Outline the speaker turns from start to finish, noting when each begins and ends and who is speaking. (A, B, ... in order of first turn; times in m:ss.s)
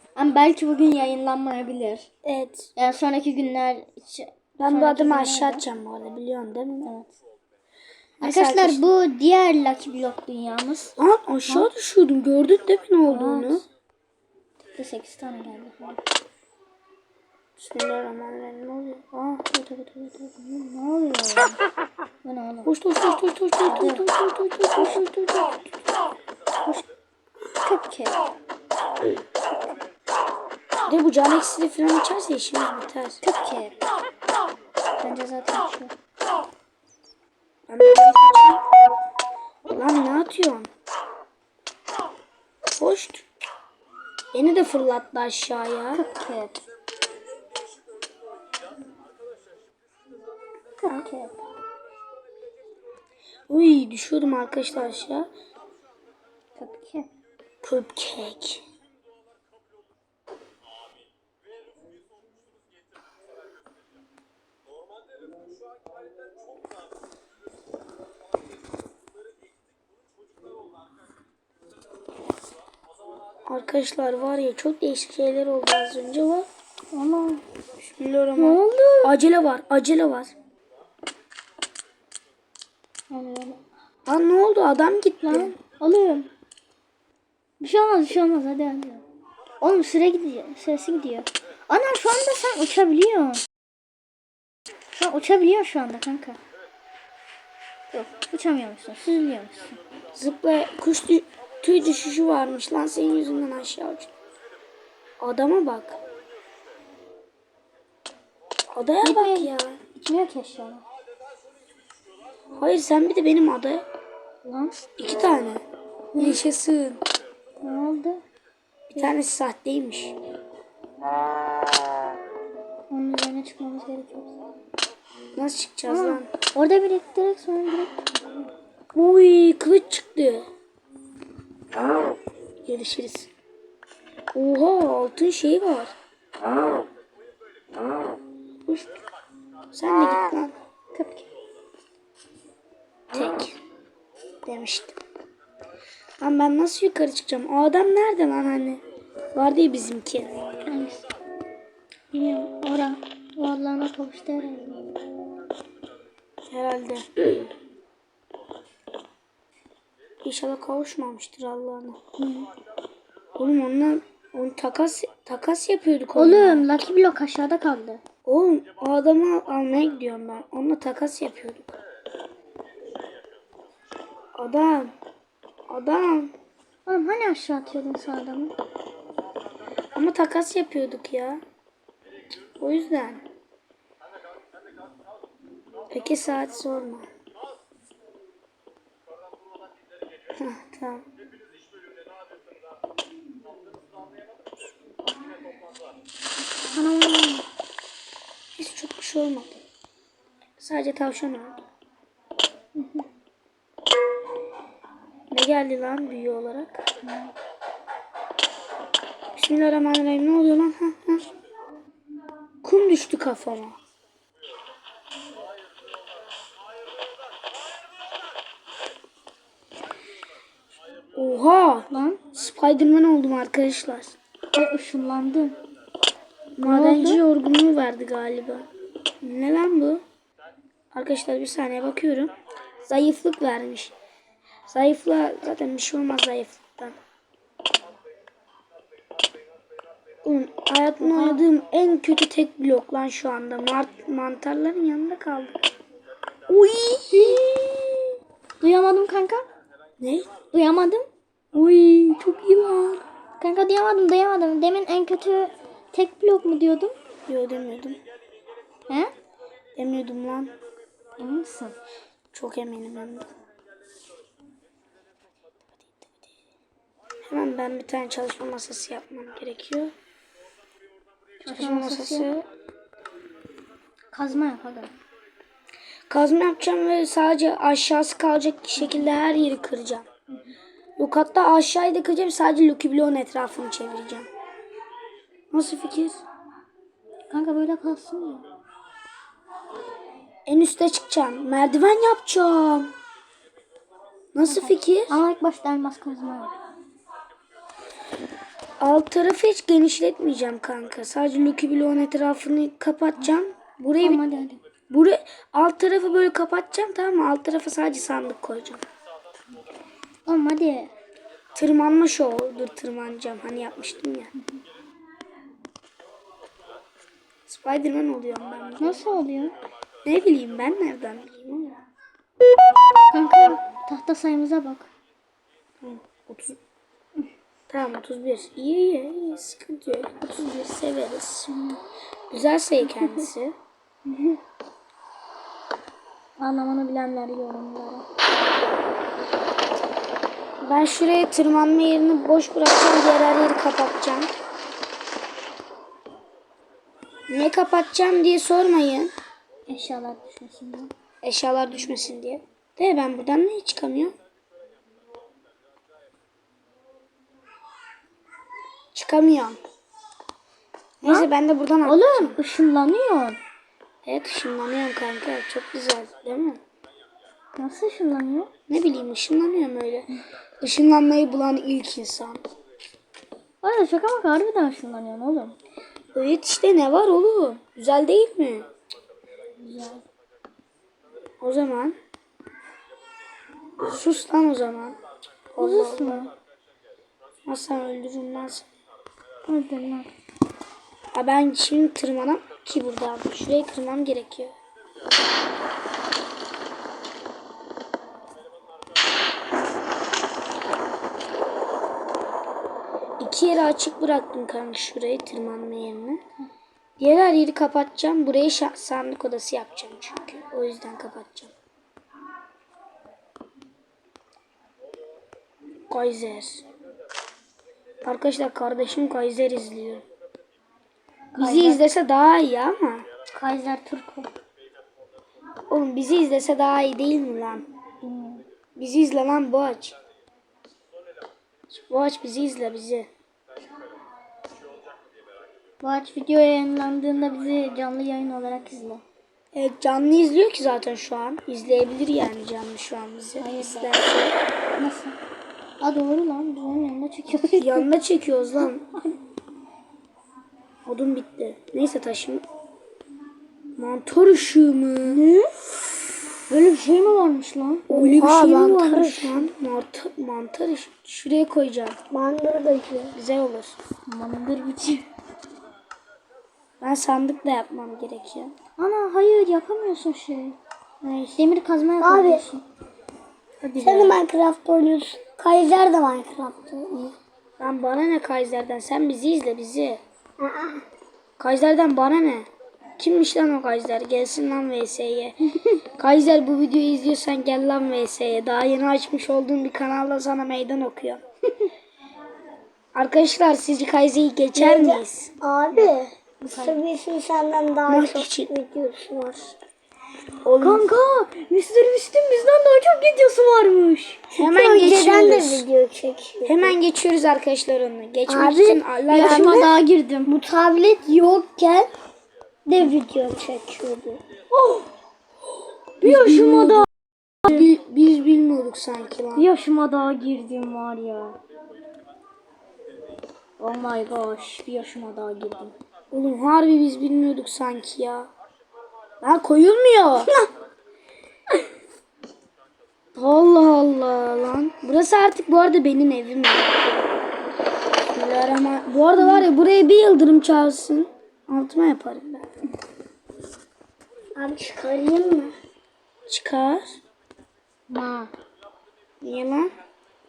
0:00.2-0:02.1 A
0:02.2-0:02.7 B
0:02.8-0:05.6 A
0:04.6-0:06.9 B
0:06.8-0:07.1 A
0:08.2-0:08.9 B
0:08.2-0:11.0 A
0:11.0-0:13.6 B
0:13.1-0:13.6 A
0:14.8-0:16.0 A
0:17.6-0:19.4 B
0:19.5-0:21.6 A
0:22.2-0:22.7 A
0:22.6-0:25.3 B
0:23.6-0:24.0 A
0:24.8-0:25.6 A
0:27.6-0:28.2 A
0:30.9-0:33.2 B
0:33.2-0:33.8 A
0:35.0-0:35.9 A
0:37.7-0:38.6 B
0:39.7-0:40.7 B
0:42.7-0:43.3 B
0:44.3-0:46.0 B
0:45.9-0:46.6 A
0:50.8-0:51.4 A
0:53.5-0:55.3 B
0:56.6-0:57.1 A
0:57.6-0:58.6 B
1:13.5-1:16.5 B
1:16.9-1:17.4 A
1:17.8-1:20.3 B
1:18.4-1:19.1 A
1:23.1-1:23.6 A
1:24.1-1:25.6 B
1:25.2-1:26.3 A
1:27.6-1:29.0 A
1:29.6-1:33.4 A
1:35.0-1:36.4 A
1:37.9-1:39.8 A
1:40.1-1:44.1 B
1:45.2-1:46.0 B
1:48.7-1:49.8 B
1:49.0-1:50.8 A
1:52.6-1:53.8 B
1:54.4-1:54.8 A
1:55.0-1:55.6 B
1:56.2-1:57.0 B
1:57.6-1:58.2 A
1:58.9-1:59.2 A
1:59.0-2:00.2 B
2:02.9-2:04.3 A
2:05.4-2:06.3 B
2:05.9-2:08.0 A
2:08.9-2:10.5 B
2:12.7-2:13.3 B
2:14.3-2:15.9 B
2:18.7-2:18.9 B
2:19.7-2:20.5 B
2:20.9-2:21.3 A
2:23.1-2:23.6 B
2:24.4-2:25.0 B
2:26.2-2:28.8 B
2:29.3-2:30.4 B
2:30.7-2:31.0 A
2:32.1-2:35.0 A
2:36.5-2:37.0 B
2:40.2-2:42.0 B
2:42.2-2:42.5 A
2:43.4-2:46.7 B
2:46.2-2:48.0 A
2:48.3-2:51.8 B
2:54.4-2:54.9 B
2:55.7-2:56.3 B
2:56.9-2:58.6 A
2:59.9-3:01.4 B
3:02.6-3:03.2 B
3:05.9-3:07.1 B
3:10.4-3:11.0 B
3:16.7-3:17.4 A
3:18.6-3:19.6 B
3:20.6-3:21.6 B
3:22.8-3:23.1 A
3:25.3-3:26.8 B
3:27.0-3:27.3 A
3:29.4-3:31.3 B
3:32.6-3:33.8 B
3:41.2-3:44.2 B
3:41.9-3:42.2 A
3:44.5-3:45.6 A
3:46.6-3:48.7 B
3:46.6-3:47.2 A
3:49.2-3:50.0 B
3:50.9-3:52.3 B
3:52.8-3:53.9 B
3:54.7-3:57.0 B
4:00.2-4:05.6 B
4:01.0-4:01.4 A
4:06.5-4:07.4 B
4:07.1-4:07.7 A
4:08.6-4:09.5 A
4:10.0-4:10.3 B
4:10.5-4:11.1 A
4:11.5-4:13.0 B
4:13.4-4:17.0 A
4:17.3-4:18.0 B
4:19.8-4:20.5 B
4:21.2-4:21.8 A
4:22.3-4:23.3 B
4:27.3-4:29.9 B
4:31.4-4:32.3 A
4:31.4-4:32.5 B
4:34.1-4:34.9 A
4:36.1-4:40.1 B
4:41.0-4:44.3 B
4:45.5-4:46.2 B
4:47.3-4:48.5 A
4:50.5-4:52.9 B
4:54.3-4:55.2 B
4:54.4-4:56.6 A
4:58.8-5:04.2 B
5:04.0-5:04.6 A
5:04.9-5:08.8 B
5:10.3-5:10.9 A
5:11.6-5:14.3 B
5:17.5-5:19.0 B
5:18.8-5:19.6 A
5:20.0-5:21.8 B
5:23.1-5:24.9 A
5:25.8-5:26.6 B
5:27.7-5:31.6 B
5:31.5-5:31.8 A
5:32.3-5:33.5 B
5:34.1-5:34.4 A
5:36.4-5:38.0 A
5:40.6-5:44.3 B
5:47.3-5:49.1 B
5:49.7-5:50.9 A
5:51.2-5:54.2 B
5:58.9-5:59.6 B
6:01.0-6:02.4 B
6:01.0-6:01.3 A
6:01.8-6:03.4 A
6:04.0-6:06.6 B
6:07.6-6:08.5 A
6:08.7-6:10.1 B
6:10.6-6:12.4 B
6:13.6-6:15.6 A
6:16.2-6:18.7 B
6:19.6-6:20.0 A
6:21.4-6:22.0 B
6:23.9-6:25.0 B
6:25.5-6:26.3 B
6:25.6-6:26.3 A
6:27.5-6:28.7 B
6:29.4-6:30.1 A
6:31.1-6:34.5 B
6:43.2-6:46.2 B
6:47.0-6:51.5 B
6:55.9-6:56.6 B
6:58.0-7:00.0 B
7:01.4-7:01.8 A
7:01.4-7:03.1 B
7:03.3-7:04.3 A
7:05.7-7:07.7 B
7:08.0-7:08.4 A
7:08.8-7:10.0 B
7:11.7-7:13.1 B
7:15.8-7:19.0 A
7:19.5-7:24.4 B
7:23.4-7:23.9 A
7:24.8-7:25.2 A
7:25.8-7:27.8 A
7:27.5-7:28.9 B
7:30.9-7:32.4 B
7:33.8-7:35.2 B
7:35.0-7:35.5 A
7:36.5-7:39.4 A
7:37.9-7:39.2 C
7:37.9-7:42.0 B
7:42.1-7:43.2 C
7:43.1-7:43.8 B
7:44.1-7:45.0 A
7:46.8-7:48.6 B
7:48.8-7:50.6 A
7:51.0-7:51.4 B
7:51.4-7:52.6 A
7:52.0-7:52.5 C
7:53.6-7:54.2 B
7:53.8-7:57.2 C
7:57.6-8:00.0 B
8:00.4-8:00.8 C
8:01.4-8:02.5 B
8:03.0-8:11.2 B
8:13.0-8:15.3 B
8:14.6-8:19.6 C
8:15.7-8:16.8 A
8:17.9-8:18.5 B
8:20.4-8:20.9 B
8:20.6-8:24.2 A
8:24.3-8:26.8 C
8:24.4-8:25.7 B
8:26.5-8:29.7 B
8:28.3-8:29.7 C
8:29.1-8:30.3 A
8:30.3-8:31.9 C
8:32.7-8:34.2 C
8:34.5-8:34.9 A
8:36.0-8:36.9 A
8:36.0-8:36.9 B
8:37.4-8:39.5 B
8:39.4-8:41.4 A
8:43.6-8:45.7 A
8:46.1-8:48.3 B
8:49.2-8:50.3 B
8:50.2-8:50.5 C
8:53.2-8:57.1 B
8:58.1-9:02.5 B
8:59.2-8:59.5 A
9:04.4-9:05.5 C
9:06.3-9:07.0 B
9:07.9-9:08.3 A
9:09.2-9:09.7 B